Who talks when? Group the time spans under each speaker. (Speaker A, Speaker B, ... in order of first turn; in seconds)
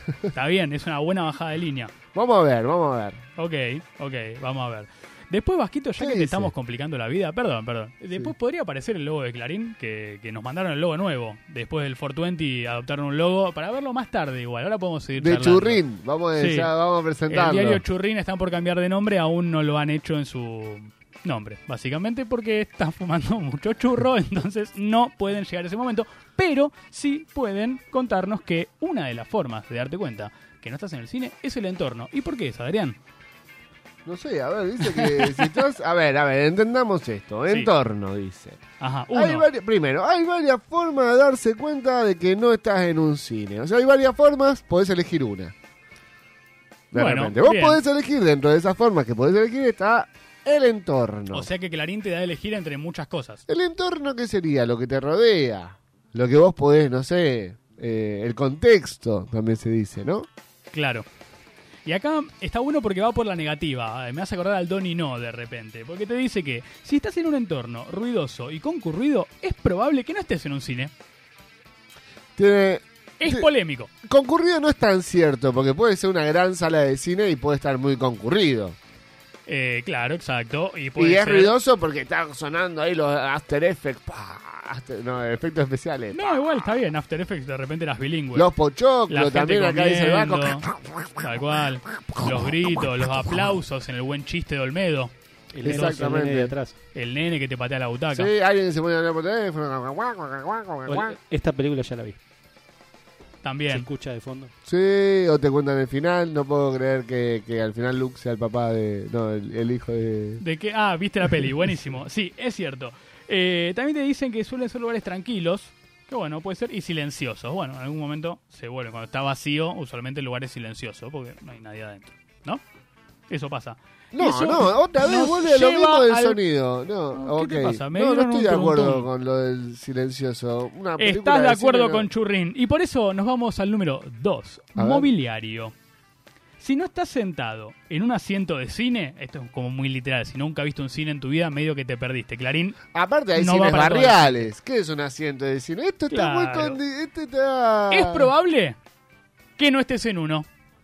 Speaker A: 0.3-1.9, 3.4-15.8, 16.4-16.7, 17.3-33.0, 34.9-35.5, 38.8-39.5, 47.0-47.8, 51.3-53.4, 60.7-61.1, 61.9-70.9, 73.2-73.9, 79.5-81.5, 86.1-88.5, 89.1-90.7, 91.2-95.1, 96.9-98.3, 103.4-103.9, 110.4-122.6, 123.3-126.4, 127.1-129.1, 131.0-135.7, 136.6-142.8, 143.3-144.5, 146.1-146.8, 147.9-148.8, 149.6-150.5
Speaker B: 2.1-3.2, 6.0-6.5, 15.2-17.8, 34.0-45.5, 46.9-51.5, 53.5-60.3, 72.4-73.5, 74.0-78.8, 81.0-86.3, 88.3-91.3, 92.1-93.5, 95.6-96.5, 98.1-101.2, 104.7-110.4, 124.1-132.1, 134.8-135.1, 142.9-148.3
Speaker C: 95.5-96.7, 100.9-102.2, 103.7-104.5